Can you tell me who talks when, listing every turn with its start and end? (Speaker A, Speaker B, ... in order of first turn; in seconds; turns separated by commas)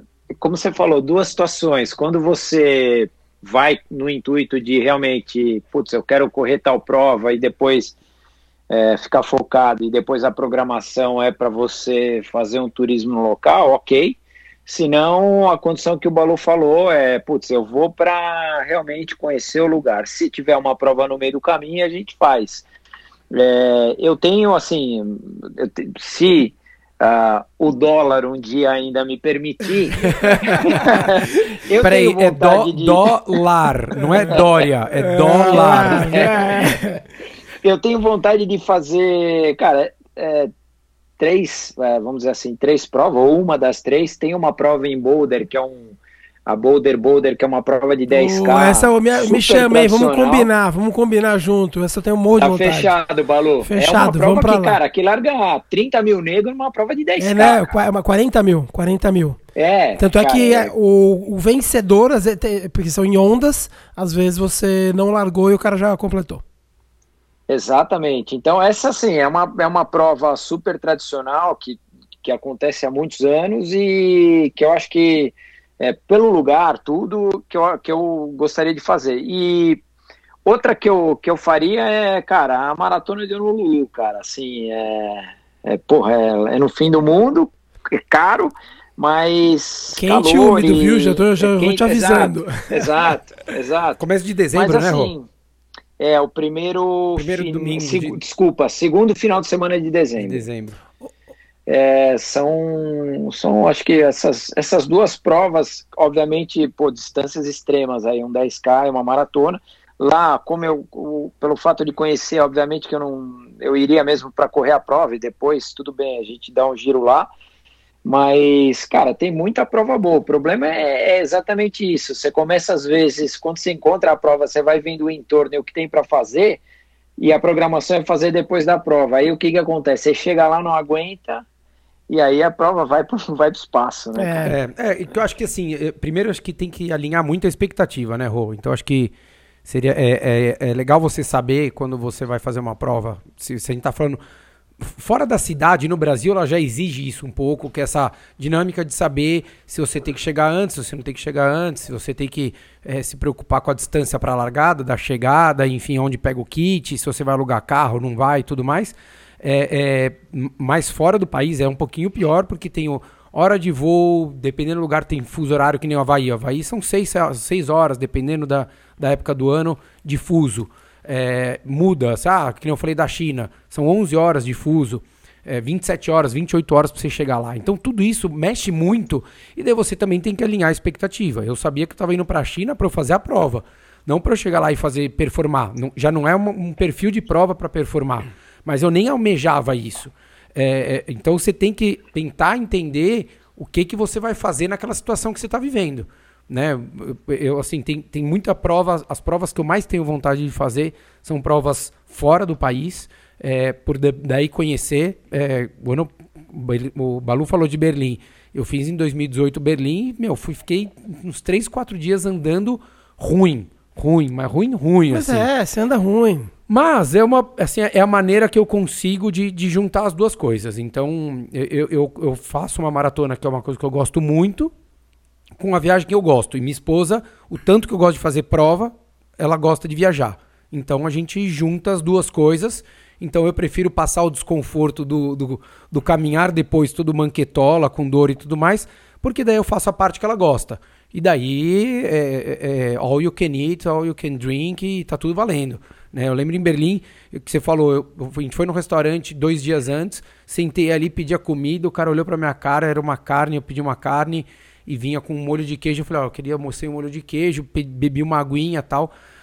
Speaker A: 0.4-8.0, Speaker A: 8.7-22.6, Speaker A: 23.3-33.2, Speaker B: 30.0-30.8, Speaker C: 30.5-30.8, Speaker B: 31.8-36.3, Speaker A: 34.3-34.7, Speaker C: 35.0-37.0, Speaker A: 35.4-36.9, Speaker A: 37.6-40.5, Speaker A: 41.2-50.5, Speaker C: 48.1-52.9, Speaker A: 52.4-57.7, Speaker C: 53.6-54.8, Speaker C: 57.2-59.4, Speaker A: 59.5-60.7, Speaker C: 60.0-66.4, Speaker A: 67.5-79.8, Speaker A: 80.5-94.0, Speaker C: 89.9-92.8, Speaker B: 94.0-95.1, Speaker A: 94.5-95.3, Speaker A: 96.0-100.4, Speaker B: 97.2-98.2, Speaker B: 100.2-100.8, Speaker A: 101.7-117.3, Speaker A: 118.0-126.6, Speaker A: 127.2-131.4, Speaker A: 132.1-134.5, Speaker C: 134.1-134.5, Speaker B: 134.4-139.1, Speaker B: 139.6-144.2, Speaker B: 144.8-215.5, Speaker C: 215.1-216.5, Speaker B: 216.7-224.7, Speaker B: 225.6-259.1